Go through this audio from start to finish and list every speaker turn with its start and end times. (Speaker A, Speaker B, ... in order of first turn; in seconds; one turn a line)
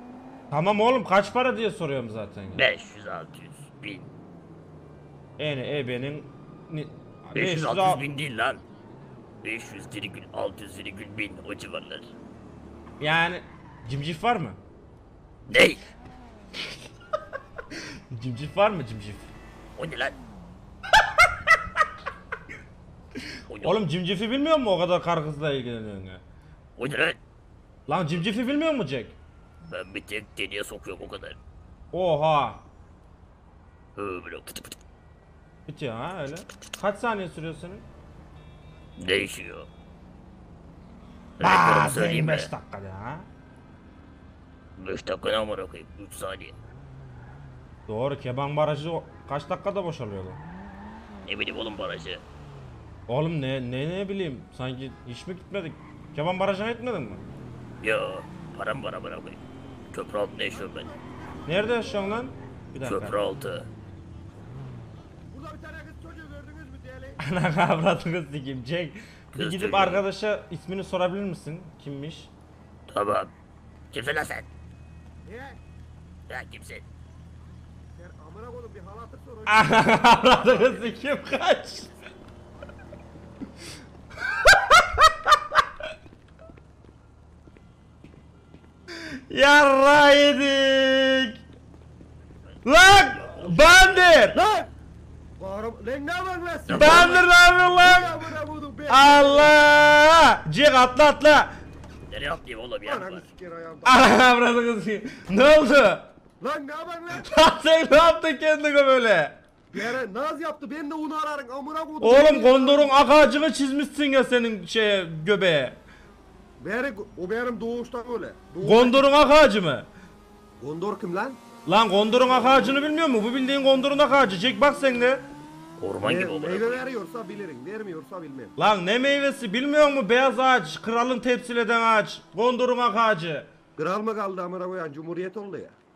Speaker A: 0.5-2.6
Speaker B: 2.5-4.1
Speaker A: 5.4-8.1
Speaker B: 7.3-8.6
Speaker B: 9.4-12.1
Speaker A: 13.0-14.6
Speaker B: 15.5-15.8
Speaker A: 18.1-19.3
Speaker B: 19.8-20.2
Speaker A: 23.2-26.2
Speaker B: 23.5-23.8
Speaker B: 26.8-27.2
Speaker A: 27.9-29.2
Speaker B: 29.7-31.4
Speaker A: 31.9-32.6
Speaker B: 34.0-34.8
Speaker A: 35.7-37.9
Speaker B: 39.0-39.7
Speaker B: 41.4-42.5
Speaker A: 41.4-43.3
Speaker B: 44.8-46.5
Speaker A: 47.9-50.4
Speaker B: 51.3-52.2
Speaker A: 53.1-57.2
Speaker B: 57.8-60.9
Speaker C: 60.5-62.3
Speaker A: 61.5-63.2
Speaker B: 62.8-63.7
Speaker C: 65.3-67.2
Speaker A: 67.2-72.3
Speaker B: 69.3-70.0
Speaker B: 72.9-73.3
Speaker B: 73.9-74.5
Speaker C: 75.2-75.6
Speaker B: 76.3-76.9
Speaker C: 78.0-80.9
Speaker A: 79.5-81.9
Speaker A: 84.4-85.6
Speaker A: 89.3-91.4
Speaker B: 92.5-94.3
Speaker A: 92.7-94.4
Speaker C: 94.3-94.7
Speaker C: 95.4-97.3
Speaker B: 96.7-97.2
Speaker A: 96.7-98.2
Speaker C: 97.8-99.6
Speaker A: 98.9-101.5
Speaker B: 102.1-103.2
Speaker C: 102.8-104.2
Speaker A: 103.9-106.1
Speaker C: 106.4-107.3
Speaker A: 107.2-109.4
Speaker C: 109.7-113.2
Speaker A: 112.0-115.8
Speaker C: 116.6-119.0
Speaker A: 118.6-119.9
Speaker C: 120.6-121.4
Speaker A: 121.7-125.2
Speaker B: 125.8-126.8
Speaker C: 126.0-128.5
Speaker A: 128.6-133.5
Speaker C: 133.8-135.8